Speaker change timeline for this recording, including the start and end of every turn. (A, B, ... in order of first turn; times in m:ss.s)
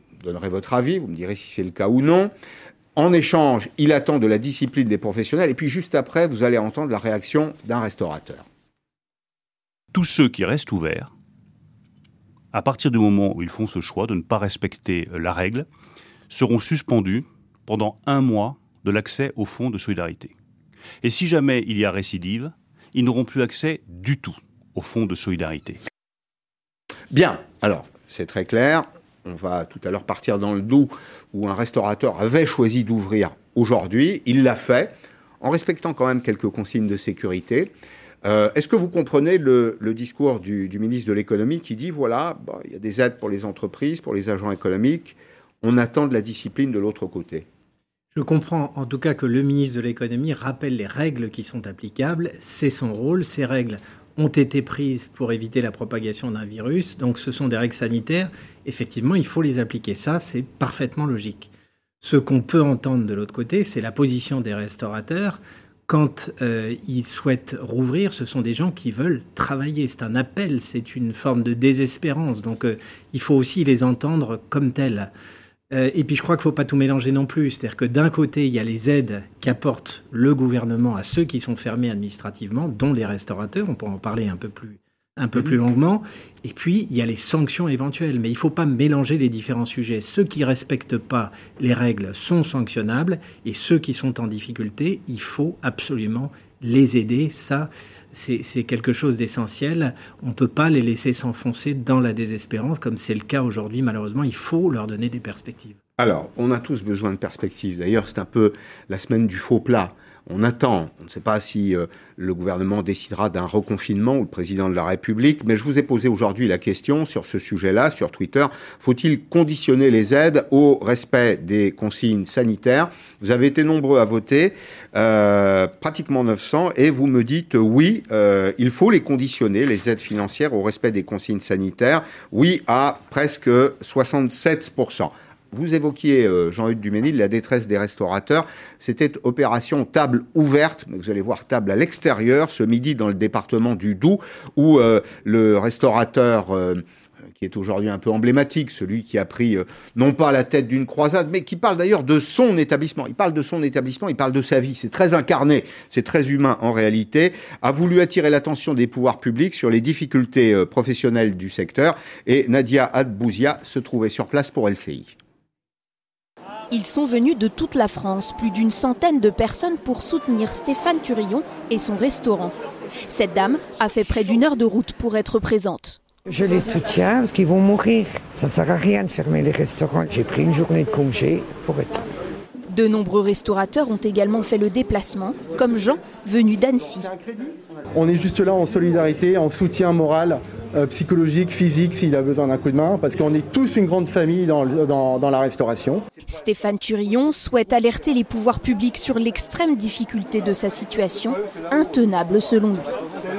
0:00.2-0:02.3 A
0:03.0-0:08.4 A
0:09.9-0:11.1 B
0:12.5-0:15.7 B
0:16.3-0:20.3 B
0:21.0-0:25.8 B
0:27.1-0:37.7 A
0:38.2-0:47.5 A
0:48.2-1:01.5 C
1:02.0-1:15.1 C
1:15.7-1:45.8 C
1:46.0-2:26.8 A
2:27.4-2:45.2 A
2:46.7-2:52.5 D
2:53.1-2:56.0 D
2:56.3-3:02.0 E
3:02.7-3:07.1 D
3:07.1-3:16.0 F
3:16.3-3:22.9 D